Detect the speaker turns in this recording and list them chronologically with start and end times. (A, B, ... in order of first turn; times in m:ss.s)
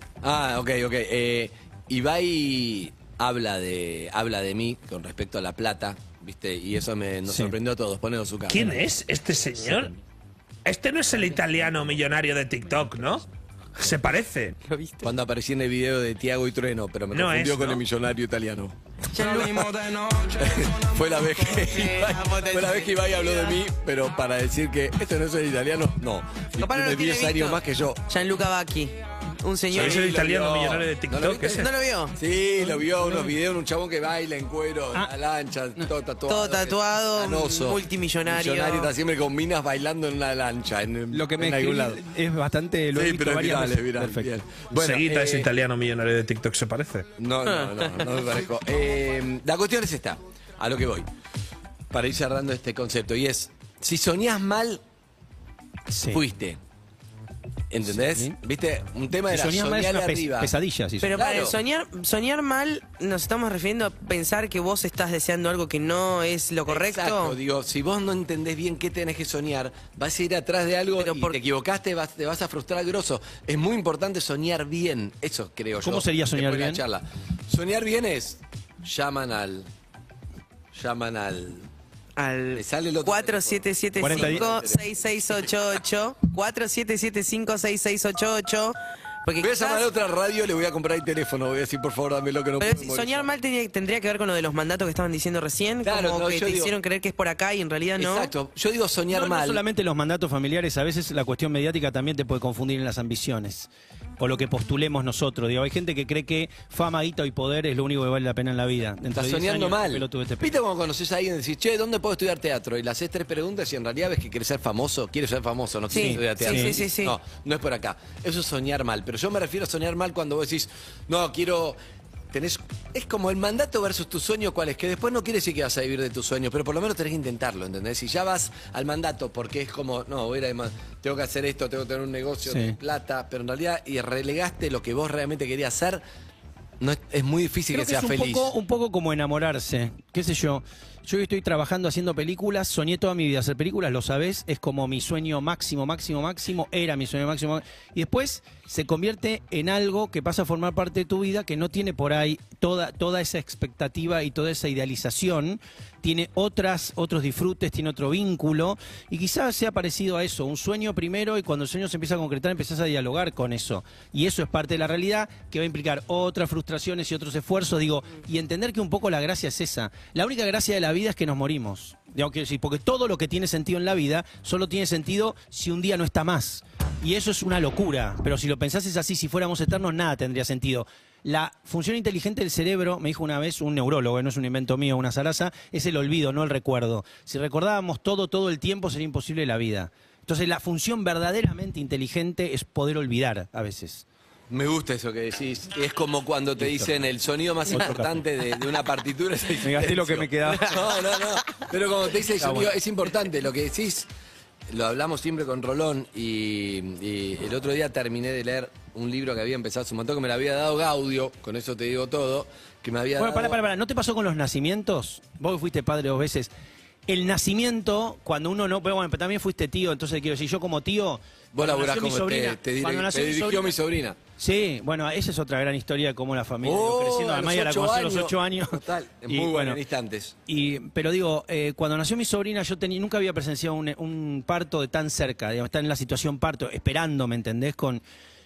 0:00.2-0:08.8 A
0:07.3-0:07.6 B
0:08.5-0:10.0 C
0:10.6-0:13.2 C
0:13.8-0:14.6 C
0:14.7-0:15.1 D
0:15.0-0:19.8 A
0:17.1-0:17.8 C
0:19.1-0:20.0 D
0:20.3-0:28.1 A
0:21.4-0:23.6 D
0:26.6-0:27.6 D
0:28.1-0:30.2 D
0:29.7-0:42.0 A
0:29.7-0:31.7 C
0:31.5-0:32.2 D
0:36.3-0:38.9 D
0:41.1-0:44.3 B
0:42.9-0:45.5 A
0:44.8-0:47.1 C
0:47.2-0:51.1 A
0:47.5-0:48.2 D
0:51.9-0:54.8 A
0:55.9-0:56.2 B
0:56.1-0:56.6 A
0:57.7-1:00.5 A
0:57.9-0:58.4 B
0:59.3-1:01.2 B
1:01.0-1:07.4 D
1:01.1-1:01.6 A
1:06.7-1:19.7 A
1:11.0-1:11.4 D
1:15.8-1:16.8 B
1:20.7-1:21.7 A
1:22.2-1:29.8 D
1:22.5-1:25.5 A
1:24.0-1:24.4 B
1:29.4-1:33.3 A
1:32.6-1:38.3 D
1:35.8-1:36.8 A
1:38.0-1:39.6 A
1:39.1-1:43.7 B
1:44.2-1:50.5 B
1:49.1-2:01.8 A
1:55.9-1:57.2 D
1:55.9-1:56.8 B
2:02.3-2:16.0 A
2:12.5-2:12.8 B
2:16.8-2:18.5 A
2:17.7-3:14.0 B
3:14.5-3:24.1 A
3:16.6-3:16.9 B
3:17.7-3:18.2 B
3:19.6-3:20.8 B
3:22.4-3:22.7 B
3:24.7-3:33.6 A
3:33.2-3:36.5 B
3:37.1-3:43.7 B
3:41.5-3:44.2 A
3:44.4-3:49.8 B
3:46.6-3:50.4 A
3:50.5-3:58.0 B